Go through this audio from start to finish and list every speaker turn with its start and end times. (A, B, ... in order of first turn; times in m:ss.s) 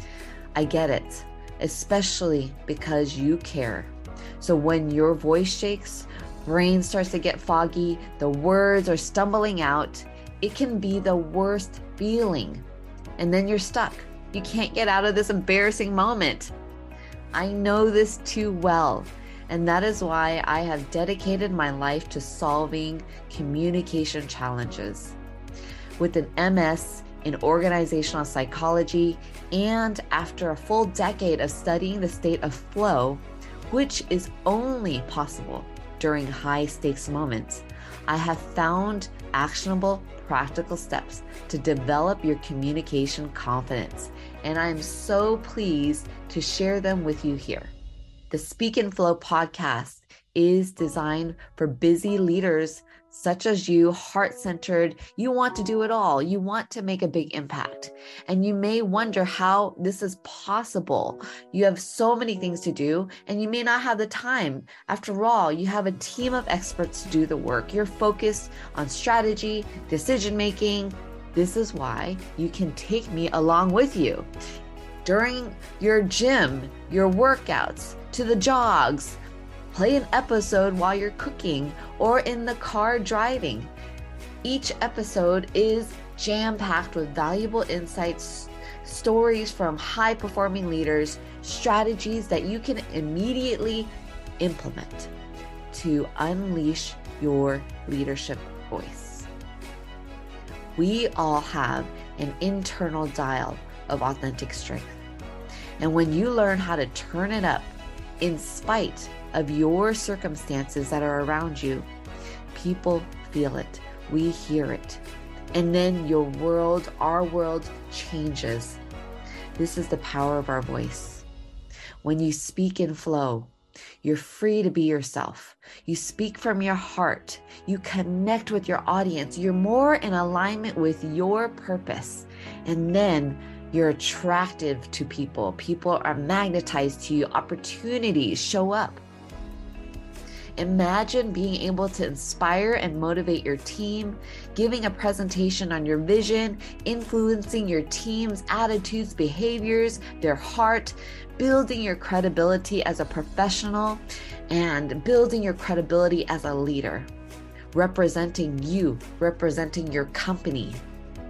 0:00.5-0:12.6 A
0:13.2-0:16.5 A
0:17.3-0:25.2 A
0:26.0-0:47.7 A
0:48.3-1:14.3 A
1:15.0-1:19.2 A
1:19.7-1:23.7 A
1:24.4-1:35.1 A
1:35.7-1:39.3 A
1:40.8-1:45.0 A
1:45.8-1:51.9 A
1:52.5-1:55.0 A
1:55.5-1:58.8 A
1:59.6-2:01.2 A
2:02.0-2:03.5 A
2:04.0-2:19.0 A
2:20.6-2:37.1 A
2:37.7-2:40.8 A